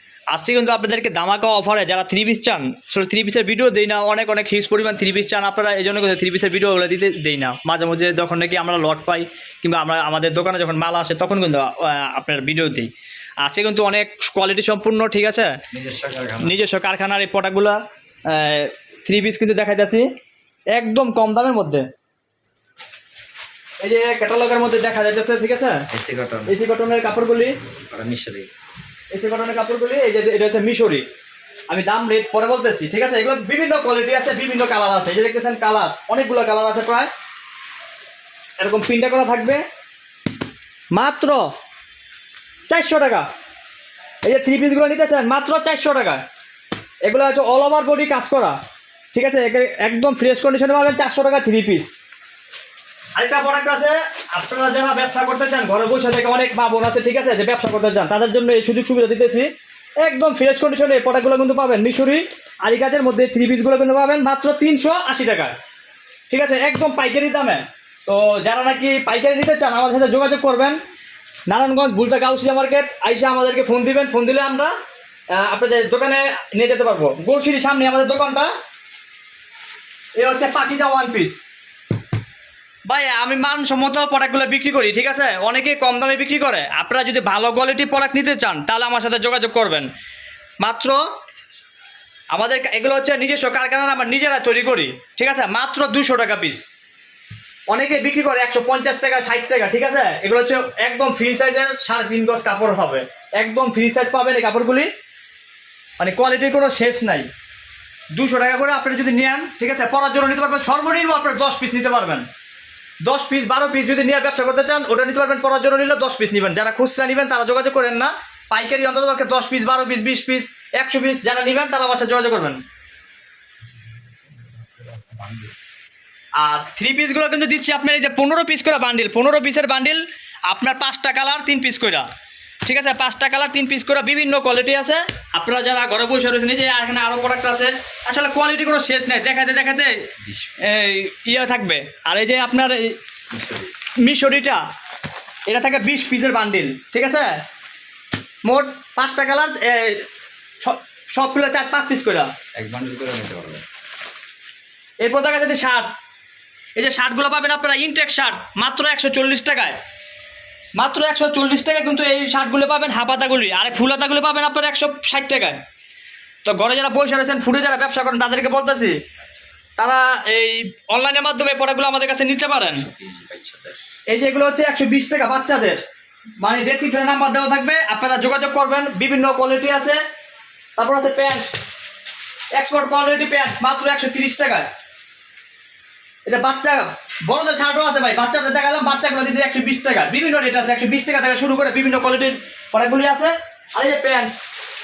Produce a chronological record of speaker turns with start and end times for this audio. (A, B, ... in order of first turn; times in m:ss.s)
0:00.3-0:12.9 A
0:13.4-0:15.6 A
0:15.7-0:16.6 B
0:16.4-0:20.1 A
0:20.7-0:21.9 A
0:23.8-0:25.9 A
0:25.9-0:26.6 B
0:26.5-0:27.6 A
0:27.9-0:28.5 B
0:29.1-0:31.1 A
0:31.7-0:37.1 A
0:38.6-0:39.6 A
0:40.9-0:41.5 A
0:42.7-0:43.3 A
0:44.2-0:46.2 A
0:47.0-0:48.6 A
0:49.1-0:51.9 A
0:53.2-0:59.5 A
1:00.0-1:05.6 A
1:06.3-1:10.8 A
1:11.5-1:14.7 A
1:15.3-1:18.5 A
1:20.2-1:21.4 A
1:22.9-1:29.9 A
1:30.6-1:31.0 A
1:32.3-1:36.6 A
1:37.7-1:44.9 A
1:46.0-1:47.3 A
1:48.1-1:52.3 A
1:53.0-2:02.6 A
2:04.8-2:05.5 B
2:06.4-2:12.1 A
2:12.6-2:23.0 A
2:23.3-2:23.7 B
2:24.0-2:24.6 A
2:25.5-2:27.4 A
2:28.4-2:30.1 A
2:30.6-2:32.3 A
2:32.6-2:33.6 B
2:35.0-2:35.9 A
2:36.8-2:39.8 A
2:40.8-2:45.6 A
2:46.4-2:49.0 A
2:49.8-2:52.9 A
2:52.8-2:53.8 B
2:54.1-2:55.8 A
2:56.4-3:00.0 A
3:00.8-3:01.5 A
3:02.5-3:04.7 A
3:06.3-3:14.3 A